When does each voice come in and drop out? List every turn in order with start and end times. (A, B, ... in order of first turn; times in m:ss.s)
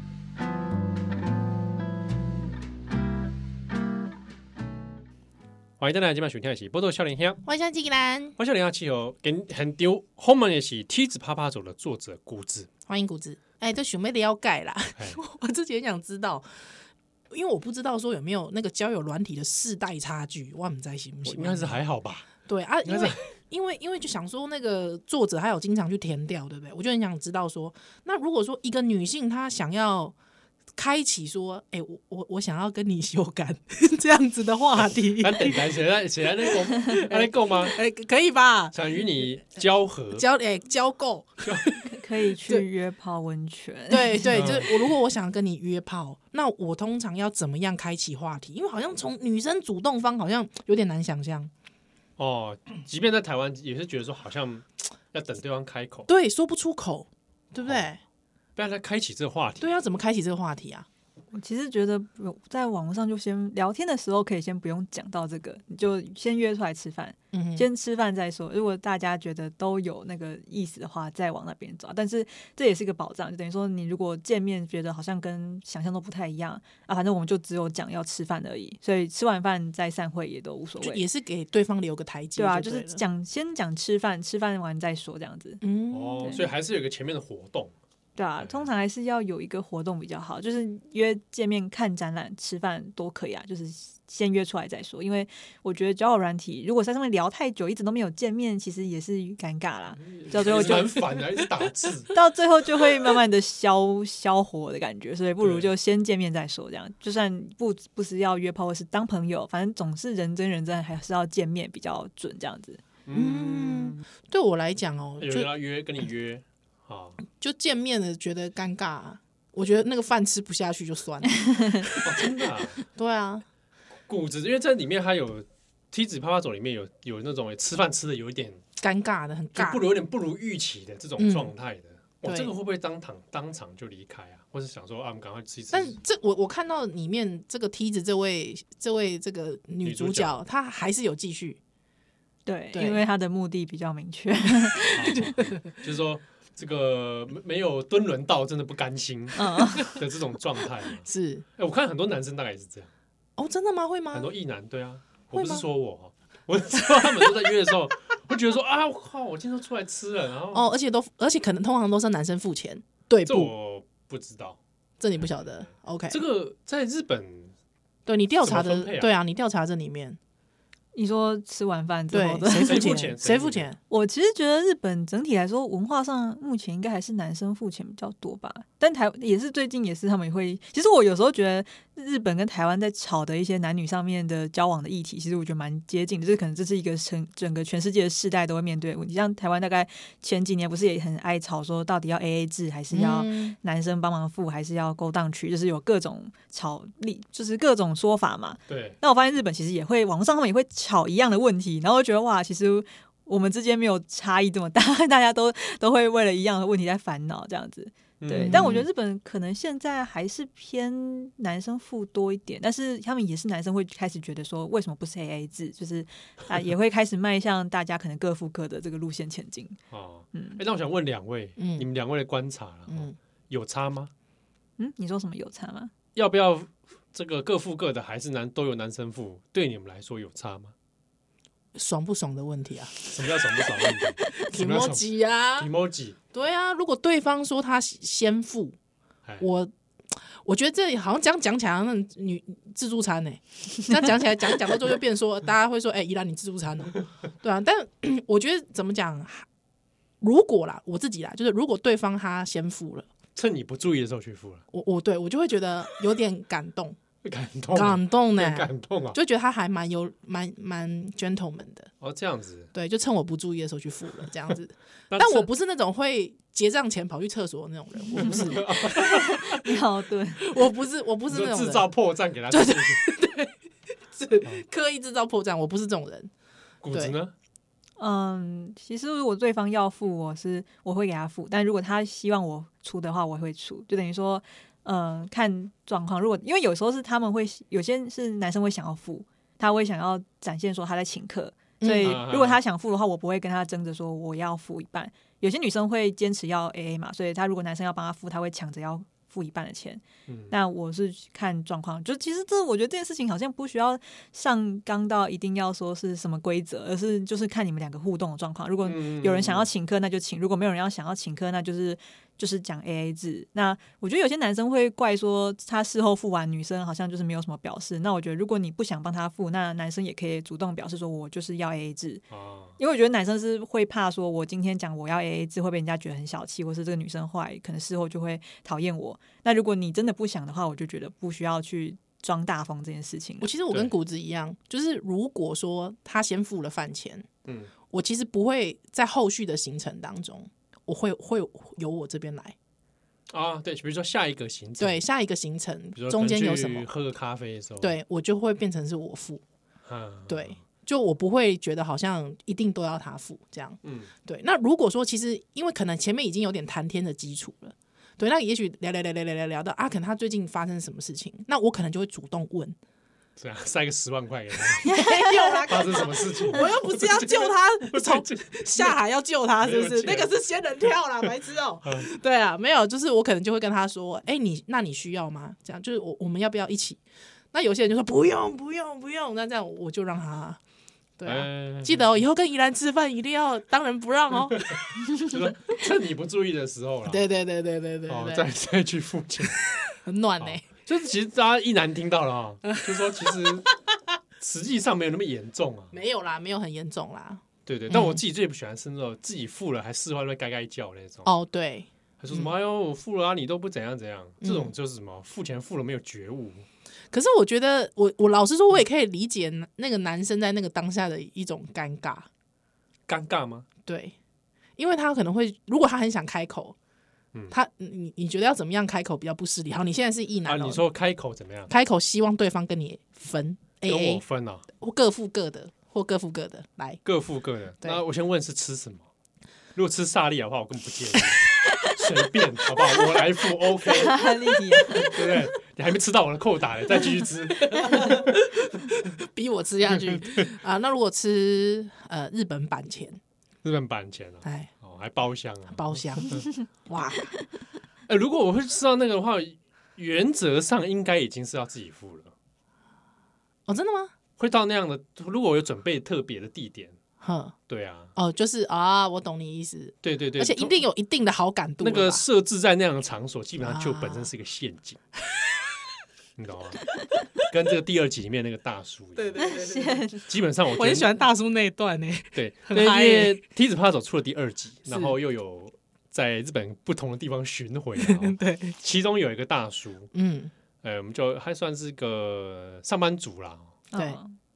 0:05.8-0:07.4 A
0:07.4-0:08.4 B
0:08.4-0:12.7 A
0:12.9-0:16.6 B
0:17.3-0:21.8 B
0:21.2-0:22.3 A
0:22.4-0:30.1 B
0:22.8-0:23.2 A
0:30.8-0:35.8 B
0:35.2-0:37.8 A
0:36.4-0:38.8 B
0:38.7-0:40.2 A
0:40.1-0:41.8 B
0:41.4-0:41.7 A
0:41.8-0:44.4 C
0:43.9-0:51.5 B
0:44.3-0:44.8 A
0:52.2-0:56.1 A
0:56.1-0:58.0 B
0:58.6-0:59.7 A
0:59.6-1:00.9 B
1:01.3-1:21.0 C
1:07.3-1:07.6 B
1:20.8-1:23.0 B
1:22.4-1:25.6 C
1:25.6-1:26.4 B
1:25.9-1:27.7 A
1:28.2-1:41.1 C
1:28.4-1:28.7 A
1:40.1-1:42.1 A
1:42.1-1:52.8 C
1:45.4-1:45.7 A
1:53.0-1:54.0 A
1:53.1-1:55.5 B
1:55.2-1:57.2 A
1:57.3-2:02.1 B
2:02.0-2:02.8 A
2:02.9-2:03.4 B
2:04.1-2:08.6 A
2:08.8-2:09.8 B
2:09.5-2:16.0 A
2:11.2-2:11.5 B
2:12.2-2:12.5 B
2:15.7-2:21.6 B
2:19.8-2:20.4 A
2:22.4-2:25.3 C
2:22.7-2:23.0 B
2:24.9-2:32.9 A
2:29.3-2:30.0 C
2:31.0-2:31.4 B
2:33.4-2:34.3 B
2:34.1-2:40.7 A
2:35.3-2:35.6 B
2:40.5-2:43.5 B
2:43.2-2:44.6 A
2:45.0-2:46.2 B
2:46.1-2:47.5 A
2:48.0-2:50.2 B
2:48.4-2:49.1 A
2:50.9-2:53.0 C
2:52.1-2:53.8 B
2:52.6-2:53.7 A
2:53.9-3:39.8 C
3:12.9-3:13.6 B
3:18.7-3:19.0 A
3:28.2-3:28.8 A
3:28.4-3:28.9 B
3:39.9-3:44.1 A
3:40.3-3:40.6 C
3:41.6-3:41.9 B
3:42.9-3:43.2 B
3:44.8-3:45.9 C
3:46.1-3:50.7 A
3:51.7-3:55.7 B
3:53.1-3:55.0 A
3:55.6-3:56.2 A
3:56.3-3:58.8 B
3:59.4-4:09.5 B
4:10.2-4:13.1 B
4:13.4-4:14.6 A
4:14.7-4:17.0 B
4:17.2-4:19.2 A
4:17.7-4:21.9 B
4:22.0-4:22.7 A
4:22.7-4:29.1 B
4:25.1-4:25.5 A
4:28.1-4:29.6 A
4:28.9-4:30.4 C
4:30.4-4:31.9 B
4:31.3-4:33.0 A
4:32.5-4:33.5 B
4:34.1-4:36.3 B
4:36.8-4:37.3 A
4:38.0-5:22.2 C
4:51.8-4:52.2 B
4:52.0-4:52.6 A
5:00.3-5:00.5 A
5:08.8-5:09.7 A
5:22.3-5:22.8 A
5:22.8-5:33.5 C
5:33.4-5:37.3 B
5:37.5-5:37.7 A
5:37.9-5:42.6 B
5:43.3-5:45.0 A
5:44.8-5:46.9 B
5:46.0-5:47.9 A
5:47.8-5:49.4 B
5:49.8-5:50.5 A
5:50.3-6:02.8 B
5:53.8-5:54.1 A
6:03.4-6:04.9 A
6:04.7-6:17.0 B
6:04.8-6:05.6 C
6:05.7-6:08.9 A
6:09.6-6:10.3 A
6:17.5-6:20.6 B
6:21.2-6:24.6 B
6:21.2-6:22.2 A
6:24.6-6:27.2 A
6:27.0-6:28.5 B
6:28.1-6:29.6 A
6:29.9-6:30.6 B
6:30.4-6:33.7 A
6:34.4-6:35.9 A
6:35.9-6:38.2 B
6:37.6-6:41.3 A
6:41.2-6:42.5 B
6:42.2-6:46.6 A
6:44.4-6:44.7 B
6:47.1-6:52.3 B
6:53.1-6:53.7 A
6:53.8-6:54.1 B
6:54.8-6:56.8 B
6:57.5-7:00.8 B
7:00.4-7:01.7 A
7:01.7-7:07.0 B
7:03.8-7:04.6 A
7:07.0-7:09.1 A
7:09.7-7:14.2 A
7:13.9-7:15.1 C
7:14.9-7:18.3 A
7:17.6-7:23.2 B
7:20.0-7:20.5 A
7:23.6-7:26.5 A
7:24.4-7:24.7 B
7:25.7-7:27.3 B
7:28.1-7:32.3 A
7:33.7-7:34.1 B
7:34.4-7:37.0 A
7:37.2-7:37.5 B
7:37.7-7:38.1 A
7:38.2-7:42.2 B
7:40.0-7:40.8 A
7:41.8-7:45.0 A
7:43.6-7:44.3 B
7:46.4-7:49.4 A
7:49.2-7:50.1 B
7:49.4-7:50.2 C
7:50.3-7:51.2 A
7:50.7-7:53.4 B
7:52.3-8:00.1 A
7:54.9-7:55.1 B
7:58.0-7:58.8 B
8:00.1-8:00.5 B
8:00.8-8:03.7 A
8:03.9-8:04.3 C